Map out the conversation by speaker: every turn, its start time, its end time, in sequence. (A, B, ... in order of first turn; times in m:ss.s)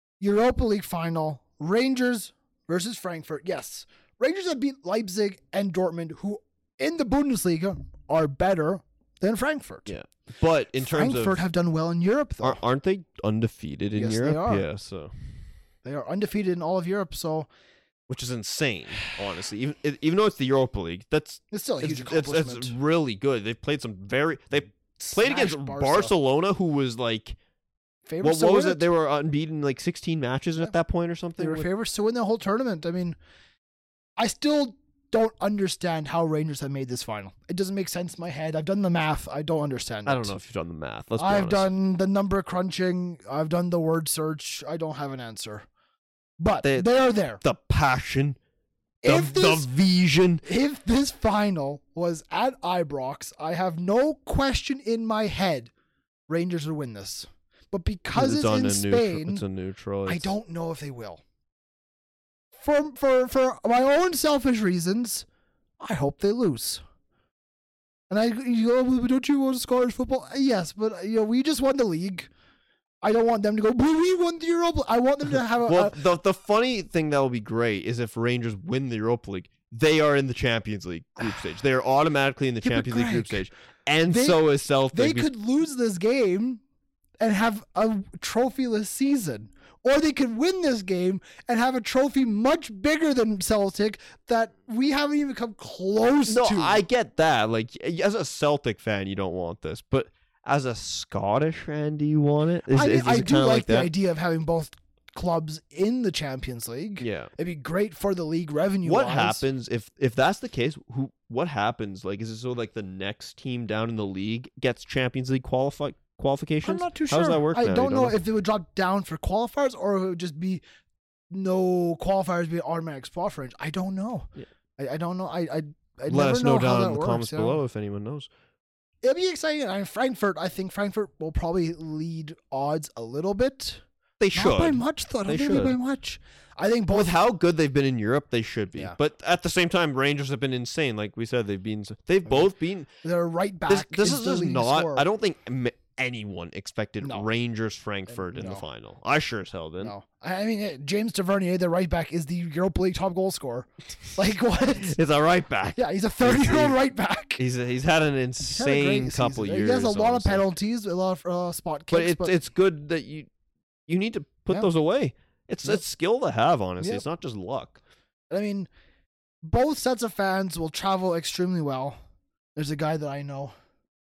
0:00.2-0:09.9 A
0:09.9-0:11.4 B
0:10.8-0:12.6 A
0:12.4-0:15.1 B
0:13.9-0:14.6 A
0:15.8-0:17.5 A
0:18.1-0:27.4 B
0:21.5-0:22.7 A
0:25.0-0:26.1 A
0:28.0-0:28.8 A
0:28.2-0:31.7 B
0:31.4-0:33.2 A
0:34.2-0:40.3 A
0:40.0-0:41.7 B
0:41.2-0:45.6 A
0:46.4-0:47.4 A
0:46.6-0:46.9 B
0:47.4-0:48.4 B
0:49.0-0:49.7 A
0:49.0-0:50.4 B
0:50.4-0:55.7 A
0:56.3-0:59.4 A
0:58.1-1:00.3 B
1:00.1-1:01.2 A
1:02.6-1:05.2 A
1:05.8-1:06.8 A
1:08.1-1:12.3 A
1:13.0-1:16.0 A
1:15.6-1:25.3 B
1:22.6-1:23.4 A
1:24.1-1:24.4 A
1:24.9-1:26.6 A
1:27.2-1:36.8 A
1:36.3-1:43.9 B
1:42.7-1:49.4 A
1:47.0-1:47.3 B
1:48.8-1:58.2 B
1:56.6-2:00.6 A
2:01.3-2:07.6 A
2:06.1-2:08.3 B
2:09.0-2:13.8 A
2:14.2-2:15.8 B
2:14.3-2:17.1 A
2:16.9-2:22.9 B
2:23.0-2:25.0 A
2:23.7-2:29.9 B
2:28.1-2:28.6 A
2:29.8-2:35.0 A
2:34.8-2:36.8 B
2:35.8-2:37.4 A
2:37.4-2:40.4 B
2:38.4-2:42.3 A
2:41.9-2:43.3 B
2:43.9-2:47.8 B
2:46.8-2:47.0 A
2:48.3-2:48.7 A
2:49.4-2:52.0 A
2:52.6-2:53.5 A